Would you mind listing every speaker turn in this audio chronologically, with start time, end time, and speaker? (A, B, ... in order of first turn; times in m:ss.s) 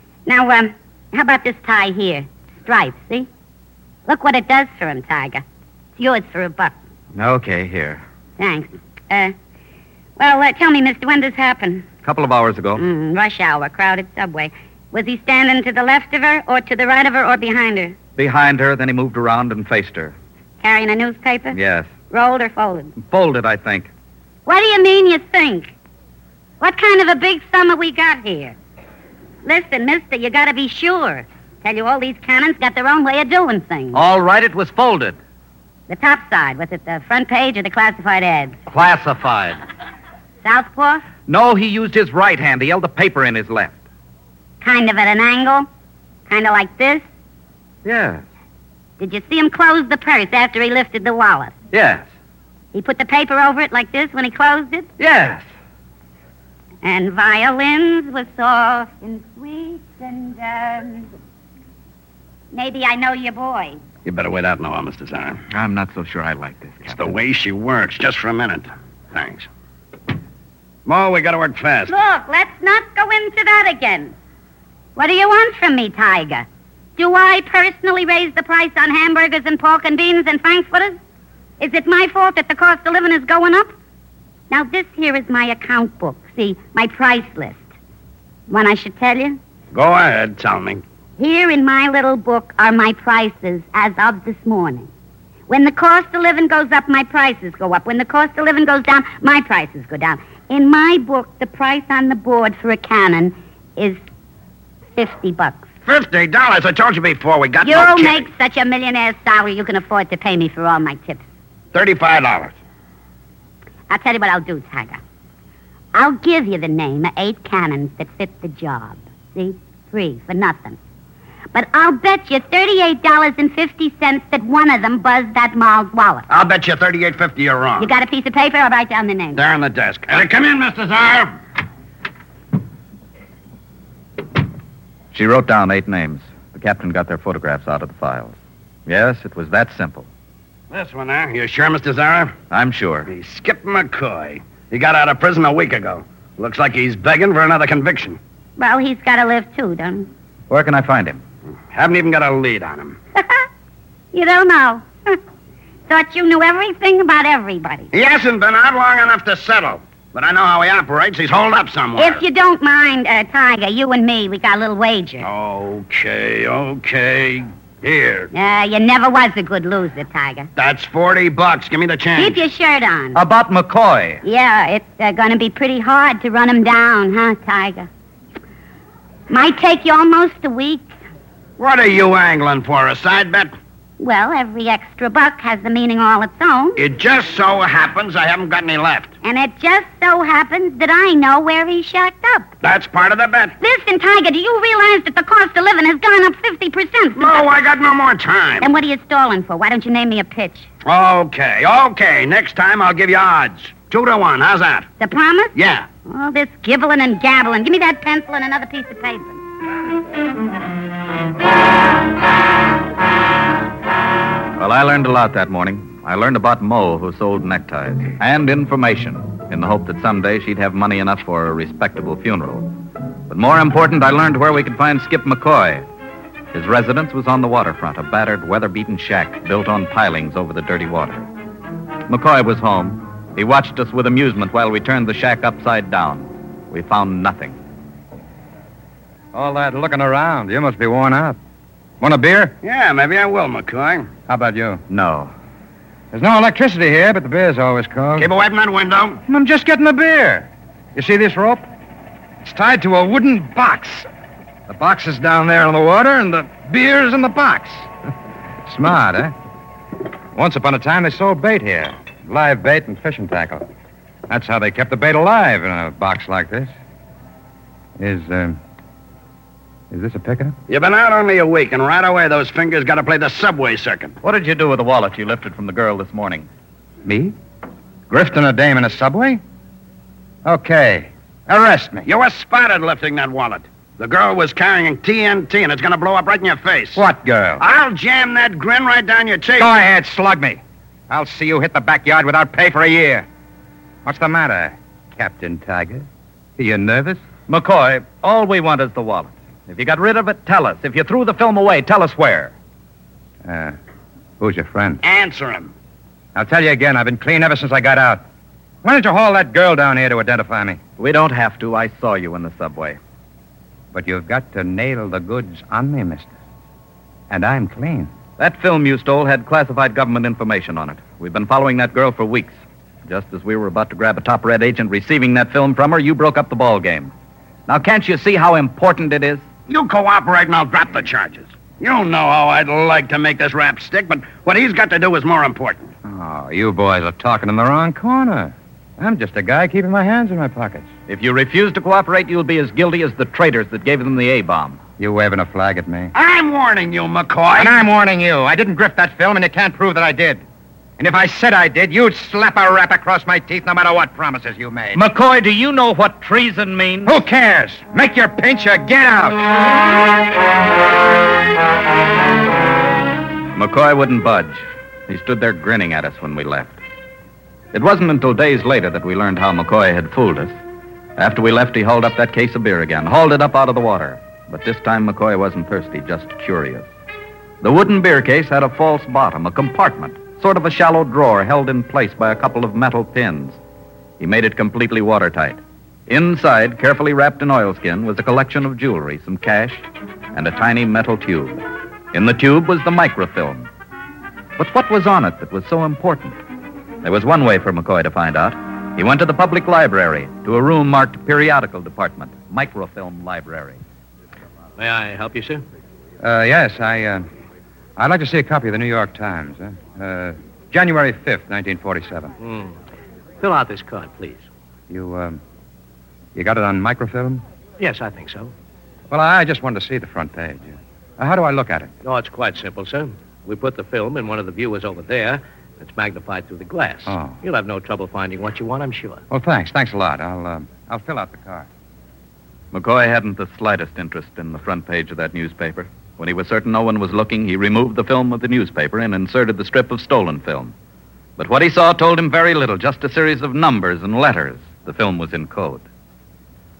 0:00.3-0:03.3 A
0:04.1-0:05.4 A
0:06.0-0:06.7 A
0:07.1-0:08.0 B
0:08.4-0:09.4 A
0:10.2-0:11.9 A
0:12.0-0:12.8 B
0:12.8-0:18.0 A
0:18.2-0:20.2 B
0:20.6-0:21.6 A
0:21.5-0:22.0 B
0:22.1-0:22.9 A
0:23.0-0:23.9 B
0:24.5-0:25.7 A
0:26.6-0:28.6 A
0:29.4-0:34.0 A
0:33.9-0:35.2 B
0:35.9-0:38.6 A
0:38.7-0:39.6 B
0:40.4-0:41.0 A
0:41.3-0:43.8 B
0:44.6-0:45.7 A
0:46.3-0:47.0 A
0:47.8-0:48.2 B
0:49.0-0:51.6 A
0:51.7-0:52.0 B
0:52.7-0:54.9 A
0:55.0-0:55.4 B
0:56.8-1:01.1 A
1:02.5-1:03.8 A
1:04.0-1:05.4 C
1:05.5-1:07.2 B
1:06.9-1:09.5 C
1:10.9-1:11.9 C
1:11.9-1:14.1 A
1:15.0-1:16.5 A
1:17.0-1:21.0 A
1:21.6-1:23.7 A
1:24.5-1:27.6 A
1:28.5-1:29.4 A
1:29.7-1:30.8 C
1:31.2-1:34.9 A
1:35.5-1:44.0 A
1:45.0-1:45.7 A
1:45.8-1:48.3 C
1:47.6-1:51.2 A
1:51.7-1:52.6 C
1:53.9-1:55.0 A
1:55.9-2:00.8 A
2:01.5-2:06.3 A
2:06.3-2:07.9 C
2:07.8-2:09.4 A
2:09.4-2:11.4 C
2:15.1-2:20.1 B
2:20.7-2:22.3 C
2:22.5-2:23.1 B
2:23.1-2:28.2 C
2:28.6-2:30.1 A
2:30.5-2:31.2 B
2:31.7-2:33.0 C
2:33.2-2:33.5 A
2:34.1-2:35.2 A
2:35.9-2:37.9 A
2:37.9-2:42.2 C
2:42.0-2:45.3 A
2:45.2-2:48.3 C
2:48.3-2:50.5 A
2:50.6-2:52.4 C
2:52.2-2:53.2 A
2:53.1-2:54.2 B
2:54.2-2:57.9 A
2:59.3-3:00.9 A
3:01.6-3:03.5 C
3:04.0-3:06.8 A
3:06.8-3:09.1 C
3:09.2-3:12.5 A
3:12.6-3:13.6 C
3:13.6-3:17.5 A
3:17.2-3:18.7 C
3:18.6-3:20.7 A
3:20.8-3:24.9 C
3:25.0-3:25.5 A
3:25.6-3:25.9 C
3:26.1-3:29.4 A
3:34.6-3:42.7 B
3:43.3-3:45.8 B
3:46.5-3:51.3 B
3:52.1-3:57.6 B
3:59.3-4:01.4 D
4:02.0-4:02.6 D
4:02.6-4:04.1 C
4:04.3-4:04.8 D
4:04.9-4:05.3 B
4:06.1-4:08.3 D
4:08.2-4:09.2 C
4:09.3-4:11.6 D
4:12.4-4:14.1 D
4:14.7-4:17.9 D
4:18.7-4:19.3 D
4:20.4-4:23.7 D
4:24.3-4:26.7 D
4:28.0-4:28.6 D
4:29.9-4:30.6 D
4:30.7-4:34.2 C
4:34.2-4:36.5 B
4:37.0-4:37.3 D
4:38.1-4:39.4 D
4:40.4-4:42.1 D
4:42.0-4:47.0 C
4:47.0-4:47.6 D
4:47.6-4:49.7 C
4:49.6-4:53.3 D
4:54.0-4:56.1 D
4:56.6-4:57.2 D
4:57.5-5:02.5 B
5:03.4-5:03.8 D
5:04.4-5:05.0 D
5:05.0-5:05.7 C
5:06.4-5:08.2 D
5:08.8-5:10.8 D
5:11.0-5:13.0 B
5:13.9-5:16.3 D
5:17.3-5:18.1 D
5:18.4-5:27.1 B
5:27.7-5:29.4 B
5:29.7-5:35.9 C
5:36.0-5:40.9 D
5:41.1-5:44.8 B
5:45.0-5:46.1 D
5:46.1-5:47.7 C
5:47.6-5:50.4 D
5:51.0-5:55.0 D
5:55.0-5:57.2 B
5:57.0-5:59.4 D
6:03.6-6:06.8 B
6:07.7-6:10.5 B
6:11.2-6:16.9 B
6:17.6-6:23.6 B
6:24.2-6:33.7 B
6:34.6-6:36.4 B
6:37.0-6:43.8 B
6:44.8-6:45.6 E
6:46.2-6:47.3 D
6:48.0-6:52.3 D
6:52.4-6:52.8 E
6:53.4-6:54.5 E
6:54.9-6:55.4 D
6:56.4-6:57.4 D
6:57.8-6:58.5 E
6:59.1-7:01.9 D
7:02.0-7:09.2 E
7:07.1-7:07.4 D
7:09.3-7:11.7 D
7:12.7-7:20.7 B
7:21.4-7:25.8 B